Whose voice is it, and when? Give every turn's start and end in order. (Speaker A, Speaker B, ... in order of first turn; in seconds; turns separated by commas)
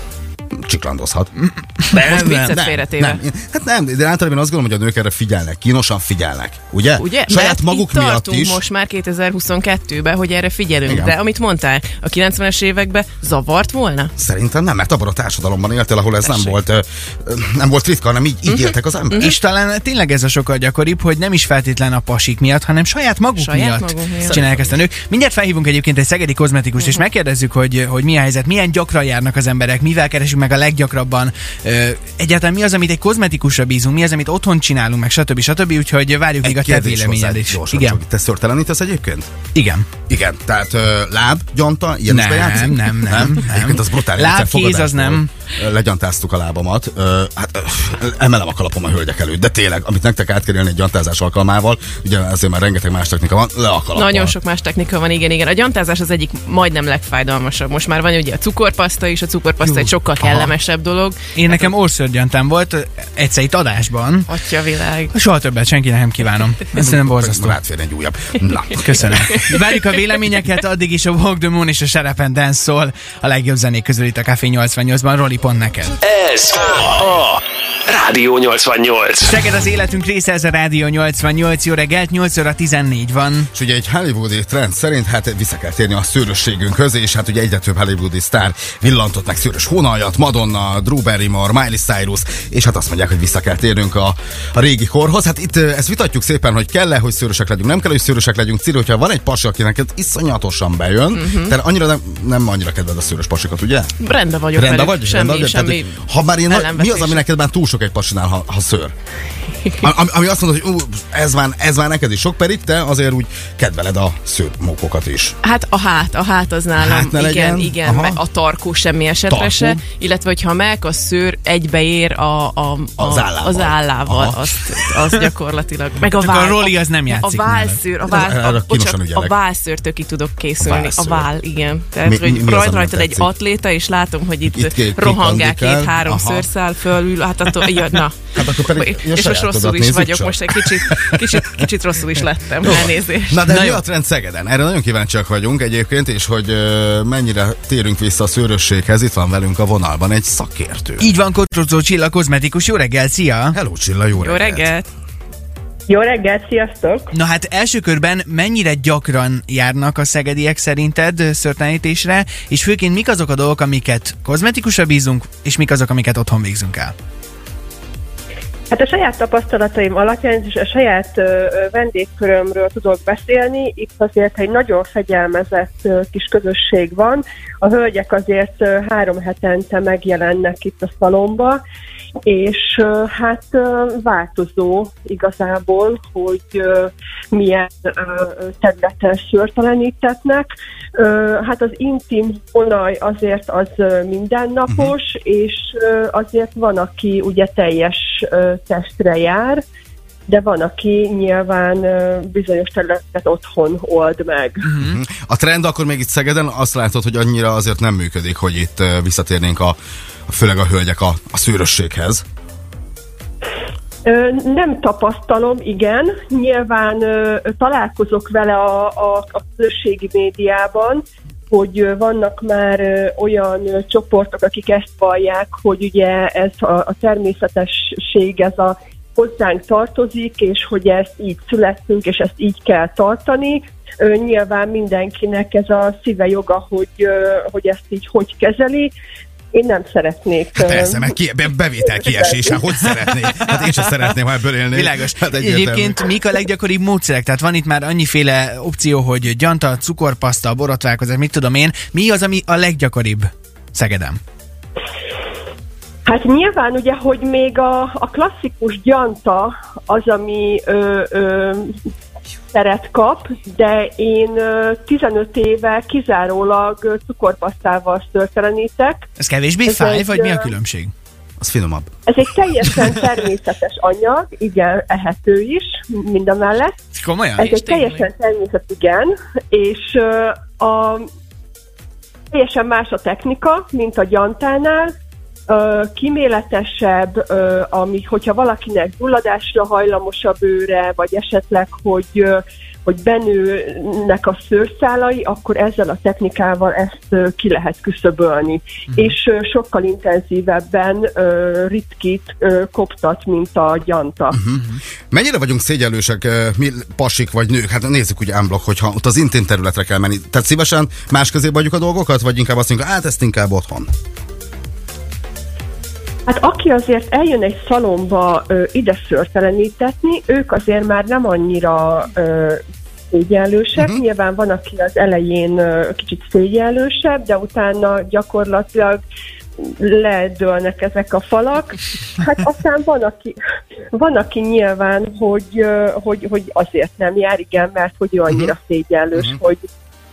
Speaker A: 0.6-8.6, Speaker B: 1.9-3.2, Speaker B: 6.9-14.1, Speaker A: 10.8-11.1, Speaker A: 14.2-19.3, Speaker B: 16.2-16.6, Speaker B: 18.5-19.4, Speaker C: 19.2-38.0, Speaker B: 23.4-24.5, Speaker A: 36.4-39.3, Speaker C: 39.5-39.9, Speaker A: 40.1-54.3, Speaker C: 42.1-45.3, Speaker B: 53.9-61.7, Speaker C: 61.3-64.3, Speaker B: 64.3-65.1, Speaker C: 65.1-67.6, Speaker A: 66.8-69.2, Speaker C: 68.8-76.0, Speaker D: 76.0-79.4, Speaker C: 79.2-83.5, Speaker A: 83.5-103.9, Speaker B: 101.1-101.6, Speaker B: 104.0-107.2, Speaker A: 104.5-108.9, Speaker A: 109.8-115.3, Speaker B: 115.4-143.4, Speaker A: 116.8-118.2, Speaker A: 119.3-119.8, Speaker A: 123.0-124.4, Speaker C: 126.1-127.8, Speaker A: 128.1-129.3, Speaker A: 130.6-131.3, Speaker A: 132.0-133.3, Speaker A: 134.5-136.5, Speaker A: 138.3-141.6, Speaker A: 142.6-151.1, Speaker C: 143.5-143.8, Speaker C: 151.0-153.6, Speaker A: 153.5-154.7, Speaker B: 154.2-154.8, Speaker E: 155.9-157.1, Speaker C: 157.1-166.9, Speaker E: 168.7-181.6, Speaker E: 182.2-199.6, Speaker E: 200.3-204.7, Speaker C: 204.6-205.0, Speaker A: 204.8-212.2, Speaker E: 214.0-238.9, Speaker E: 239.5-241.1, Speaker A: 240.6-246.1, Speaker E: 242.0-242.5, Speaker C: 244.7-254.2, Speaker E: 256.1-261.7, Speaker E: 262.5-269.0, Speaker C: 269.2-270.9, Speaker E: 269.6-270.6, Speaker A: 271.4-271.9, Speaker E: 272.1-276.7, Speaker C: 276.9-277.5, Speaker E: 277.4-281.1, Speaker B: 277.4-278.1, Speaker E: 282.3-284.9, Speaker E: 285.5-304.4, Speaker A: 304.3-313.9, Speaker E: 316.2-322.6, Speaker E: 323.1-329.0, Speaker E: 329.6-333.4, Speaker E: 333.9-339.6